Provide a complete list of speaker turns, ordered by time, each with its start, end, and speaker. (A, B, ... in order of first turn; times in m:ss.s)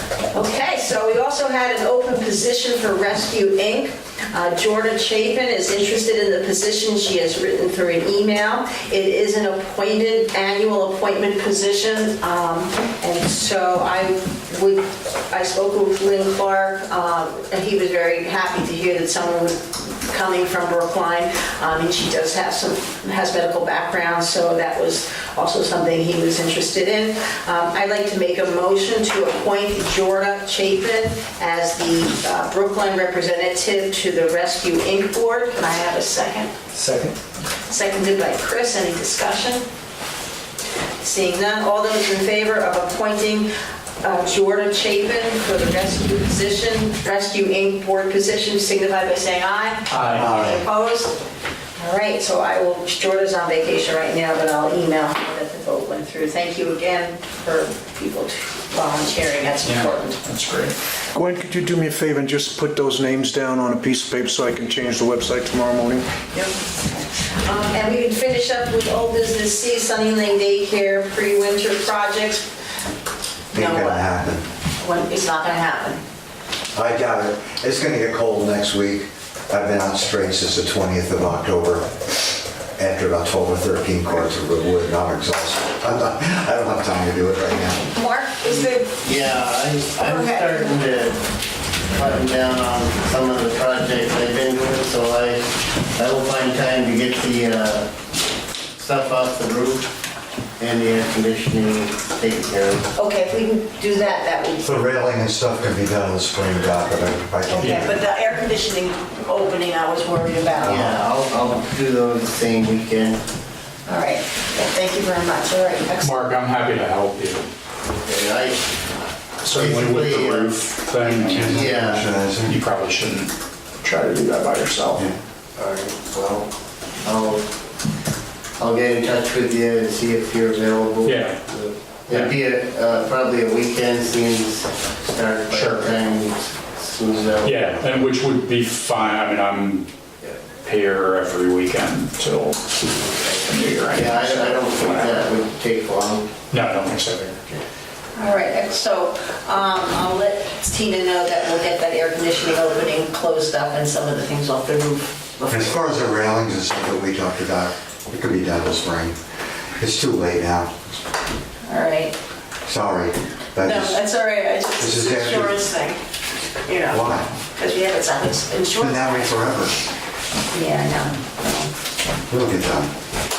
0:00.3-0:36.5 A
0:36.8-0:37.1 B
0:37.7-0:39.6 A
0:41.0-0:43.5 A
0:44.0-0:51.2 A
0:49.9-0:50.5 C
0:50.1-0:50.6 D
0:51.8-1:00.2 A
0:59.6-1:00.8 C
1:01.1-1:06.1 B
1:07.4-1:12.5 A
1:13.5-1:14.1 A
1:13.5-1:14.5 D
1:14.8-1:16.0 A
1:16.7-1:27.9 D
1:27.9-1:29.0 A
1:28.4-1:31.2 E
1:30.0-1:30.8 A
1:31.9-1:37.9 E
1:38.8-1:39.9 E
1:40.6-1:42.9 E
1:43.0-1:44.8 A
1:44.6-1:48.0 D
1:47.5-1:51.0 A
1:47.6-1:47.9 C
1:50.6-1:53.2 E
1:53.9-1:56.2 A
1:56.0-1:57.5 C
1:57.8-1:58.6 E
1:59.4-2:05.0 C
1:59.5-2:00.6 E
2:01.3-2:02.6 D
2:01.3-2:02.0 E
2:05.6-2:06.5 E
2:07.0-2:07.5 E
2:08.6-2:17.8 E
2:11.0-2:11.4 C
2:15.5-2:15.9 C
2:17.4-2:19.9 C
2:20.6-2:22.7 C
2:23.0-2:27.6 E
2:23.4-2:25.2 C
2:26.5-2:27.3 C
2:28.2-2:35.8 A
2:35.5-2:39.2 D
2:39.8-2:40.7 D
2:41.7-2:42.2 A
2:42.6-2:44.0 D
2:43.6-2:46.0 A
2:44.8-2:45.6 D
2:46.6-2:49.1 A
2:46.9-2:47.3 D
2:48.8-2:49.8 D
2:50.5-2:51.7 A
2:52.3-2:52.9 D